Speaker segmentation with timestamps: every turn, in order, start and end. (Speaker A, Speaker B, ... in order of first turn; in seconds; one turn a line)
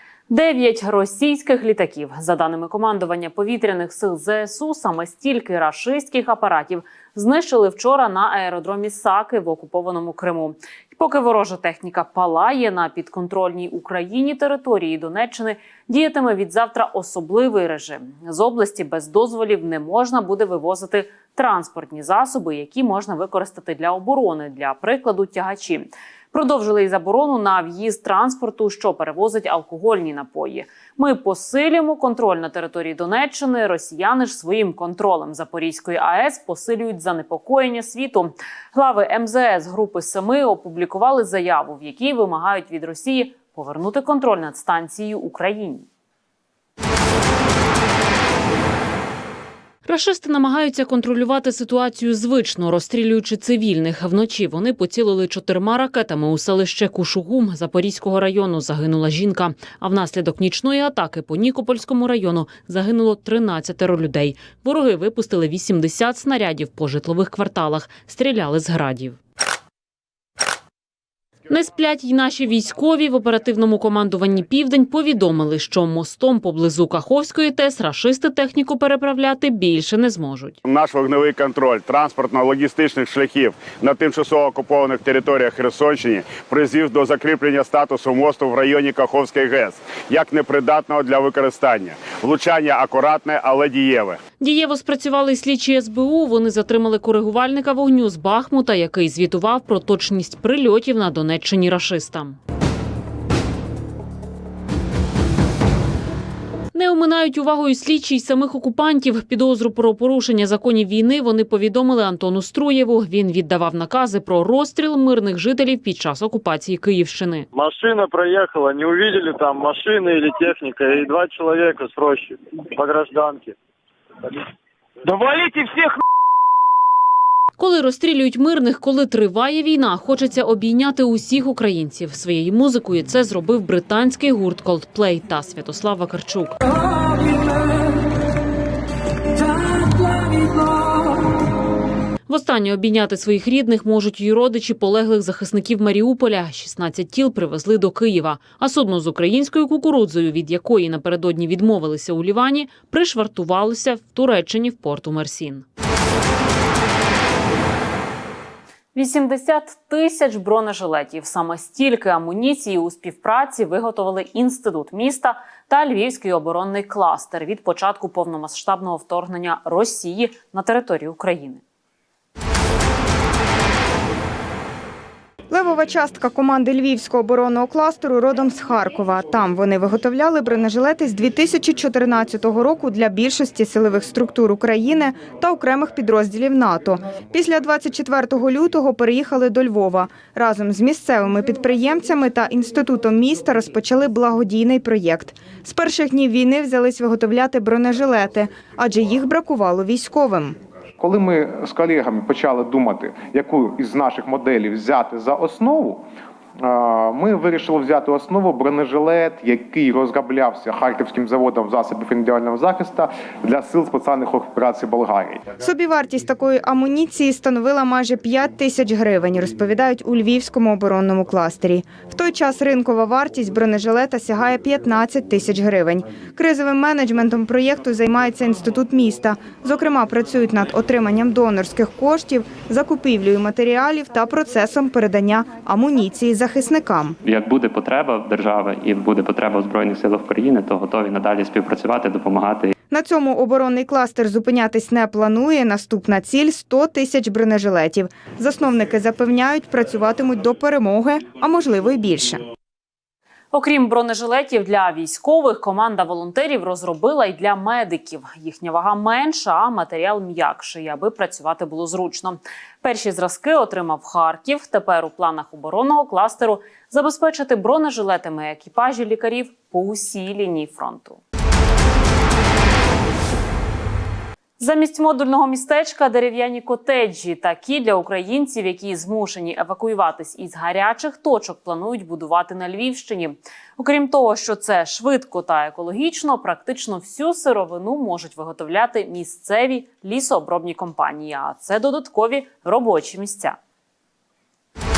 Speaker A: 0.3-45.9
Speaker A: 49.8-69.2
Speaker A: 71.5-80.6
Speaker B: 80.7-94.2
Speaker A: 94.4-102.4
Speaker A: 106.7-117.5
Speaker C: 117.5-123.5
Speaker A: 127.6-136.6
Speaker A: 142.3-155.7
Speaker A: 158.9-171.6
Speaker D: 175.5-200.6
Speaker E: 201.0-206.1
Speaker E: 206.6-215.4
Speaker D: 215.6-237.2
Speaker F: 237.2-242.7
Speaker D: 242.9-252.4
Speaker A: 253.5-271.2
Speaker A: 274.6-293.6